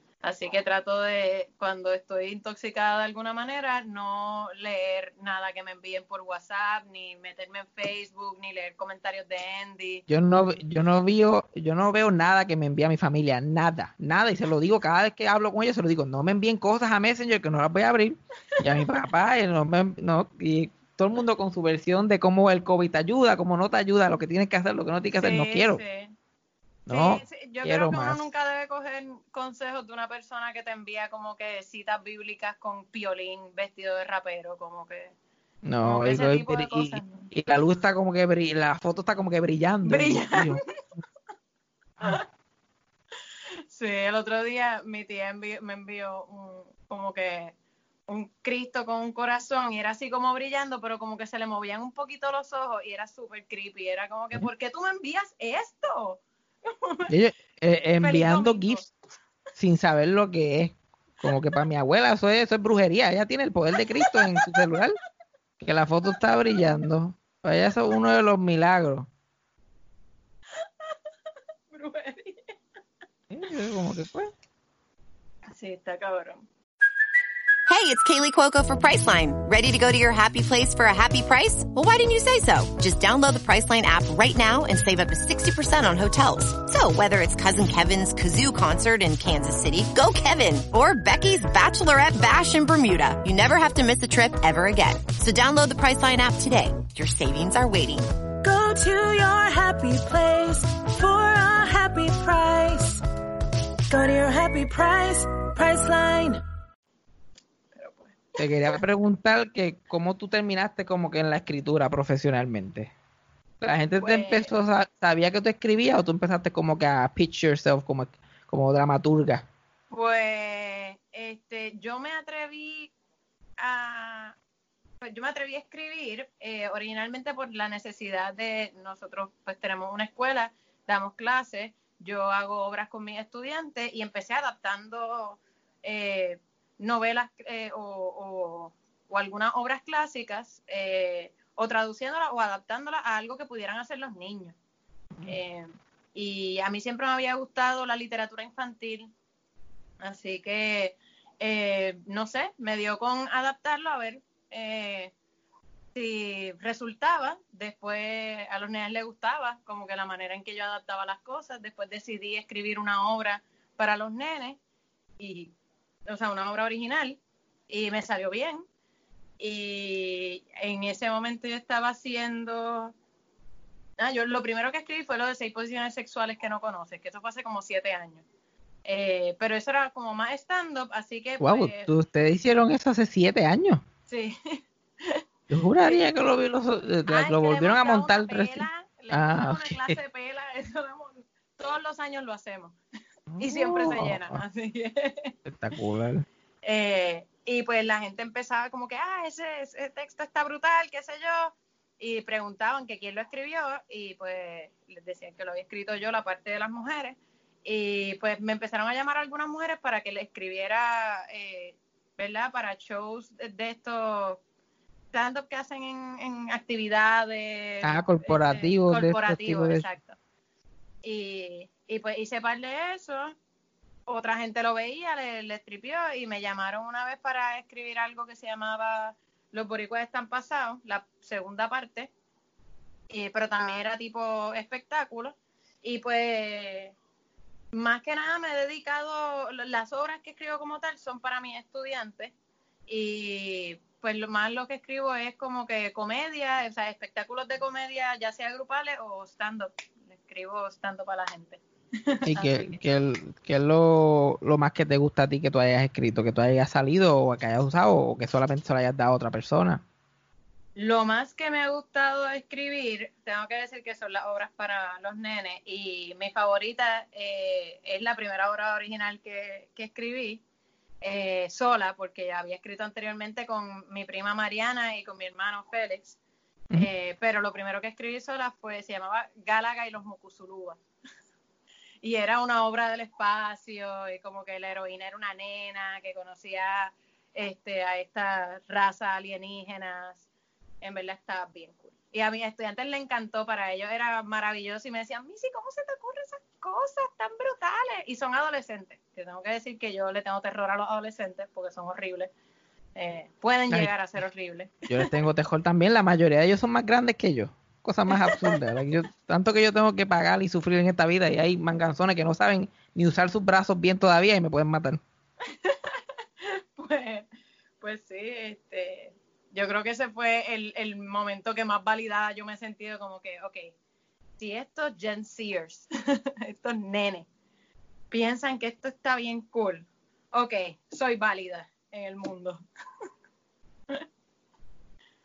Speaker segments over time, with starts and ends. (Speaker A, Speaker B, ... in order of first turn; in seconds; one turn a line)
Speaker A: 0.2-10.0
Speaker B: 10.1-25.8
Speaker A: 25.1-26.1
Speaker B: 26.9-28.2
Speaker A: 26.9-35.1
Speaker B: 35.6-40.6
Speaker A: 35.8-37.3
Speaker A: 39.8-40.7
Speaker A: 43.7-47.5
Speaker A: 48.1-57.1
Speaker B: 57.1-58.9
Speaker A: 58.0-58.9
Speaker B: 59.6-65.0
Speaker A: 64.0-64.7
Speaker B: 65.6-69.1
Speaker A: 70.5-71.0
Speaker A: 71.7-72.5
Speaker B: 73.3-74.3
Speaker A: 75.5-76.5
Speaker C: 77.7-98.1
Speaker D: 98.4-103.0
Speaker D: 103.9-106.4
Speaker A: 107.8-108.4
Speaker B: 108.4-112.9
Speaker B: 113.6-119.5
Speaker A: 114.0-114.5
Speaker A: 119.9-122.9
Speaker A: 123.6-124.4
Speaker A: 125.0-144.6
Speaker A: 145.3-149.1
Speaker A: 150.0-155.1
Speaker A: 155.9-164.6
Speaker A: 165.2-165.5
Speaker A: 166.1-168.7
Speaker A: 169.4-172.9
Speaker A: 174.0-178.2
Speaker A: 178.8-181.9
Speaker B: 181.4-183.8
Speaker A: 184.1-185.2
Speaker B: 185.5-190.0
Speaker A: 187.1-192.8
Speaker B: 193.3-194.4
Speaker A: 193.4-195.4
Speaker B: 195.4-196.3
Speaker A: 196.6-214.4
Speaker A: 215.1-220.2
Speaker B: 217.8-219.9
Speaker A: 221.0-223.4
Speaker A: 224.1-232.1
Speaker A: 233.1-236.9
Speaker A: 237.7-242.3
Speaker A: 242.9-252.8
Speaker B: 252.3-259.8
Speaker A: 260.8-270.4
Speaker A: 271.0-276.2
Speaker A: 276.8-280.8
Speaker A: 282.0-290.2
Speaker A: 290.8-302.3
Speaker A: 302.9-305.2
Speaker B: 304.9-315.0
Speaker A: 308.1-308.6
Speaker A: 315.5-317.3
Speaker A: 317.8-323.7
Speaker A: 324.4-327.3
Speaker A: 328.1-332.6